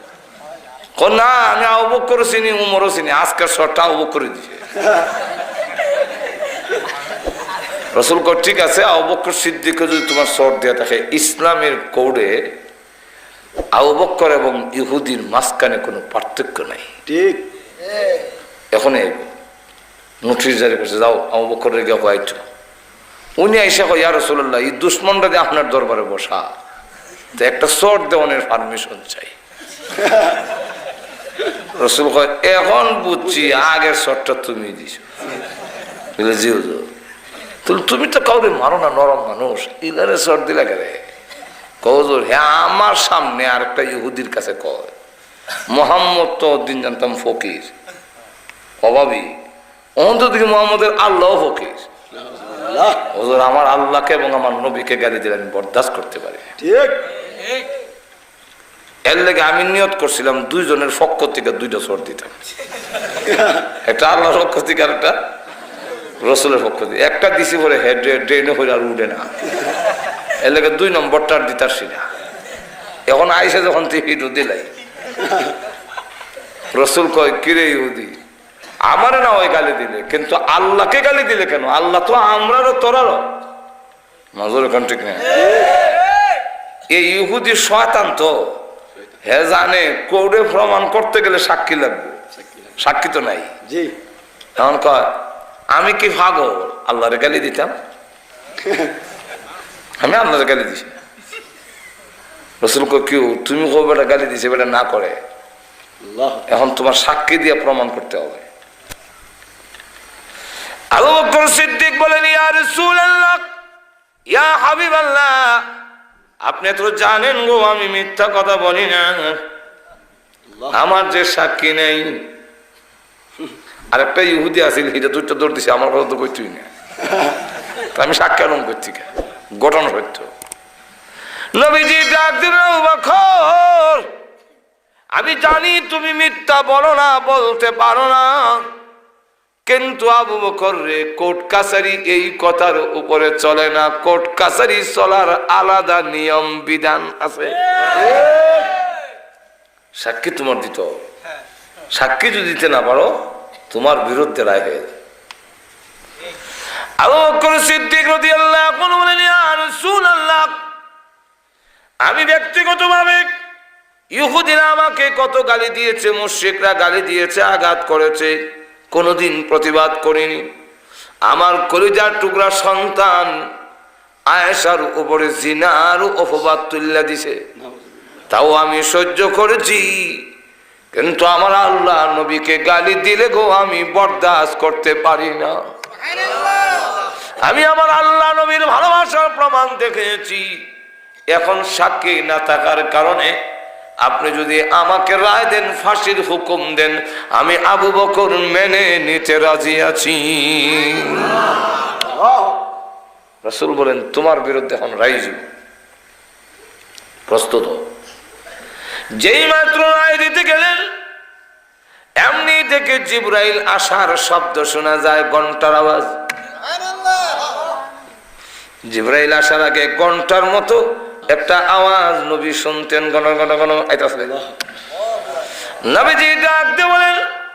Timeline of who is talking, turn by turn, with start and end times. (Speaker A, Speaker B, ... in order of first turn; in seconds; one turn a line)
Speaker A: 1.0-4.8
Speaker A: 7.9-12.5
Speaker A: 13.7-16.9
Speaker B: 17.1-17.5
Speaker A: 18.7-19.3
Speaker A: 20.2-22.4
Speaker A: 23.4-26.5
Speaker A: 27.4-29.3
Speaker A: 31.6-35.1
Speaker A: 36.2-36.9
Speaker A: 37.6-41.0
Speaker A: 41.8-44.9
Speaker A: 45.7-47.7
Speaker A: 48.8-49.3
Speaker A: 50.0-51.9
Speaker B: 52.2-53.1
Speaker A: 53.0-56.5
Speaker B: 56.6-57.1
Speaker A: 59.1-62.3
Speaker A: 63.5-65.2
Speaker A: 66.2-69.5
Speaker A: 70.4-72.0
Speaker A: 73.1-74.7
Speaker A: 76.7-78.2
Speaker A: 78.9-83.4
Speaker A: 84.3-85.5
Speaker A: 86.9-88.4
Speaker A: 89.2-92.2
Speaker B: 92.4-92.7
Speaker A: 92.8-93.5
Speaker B: 93.7-94.0
Speaker A: 94.6-95.1
Speaker A: 95.7-97.7
Speaker B: 98.7-98.9
Speaker A: 100.0-101.0
Speaker A: 102.6-105.2
Speaker B: 106.0-106.5
Speaker A: 106.5-108.5
Speaker A: 110.9-113.5
Speaker A: 114.3-115.7
Speaker A: 116.5-119.4
Speaker A: 120.7-122.3
Speaker A: 123.9-126.7
Speaker A: 127.7-130.3
Speaker A: 131.5-134.1
Speaker A: 135.2-138.7
Speaker A: 139.7-148.1
Speaker A: 150.0-151.0
Speaker A: 151.9-153.2
Speaker A: 153.7-154.9
Speaker A: 157.0-160.6
Speaker A: 162.0-163.3
Speaker A: 164.1-168.3
Speaker A: 168.9-170.5
Speaker A: 171.3-173.3
Speaker A: 174.3-177.4
Speaker A: 178.3-180.2
Speaker A: 180.9-185.6
Speaker A: 186.7-190.6
Speaker A: 191.3-193.4
Speaker A: 194.0-201.5
Speaker B: 202.1-202.6
Speaker A: 203.4-205.4
Speaker A: 207.3-207.8
Speaker A: 209.2-210.8
Speaker A: 212.2-216.2
Speaker A: 218.9-224.4
Speaker A: 225.9-227.2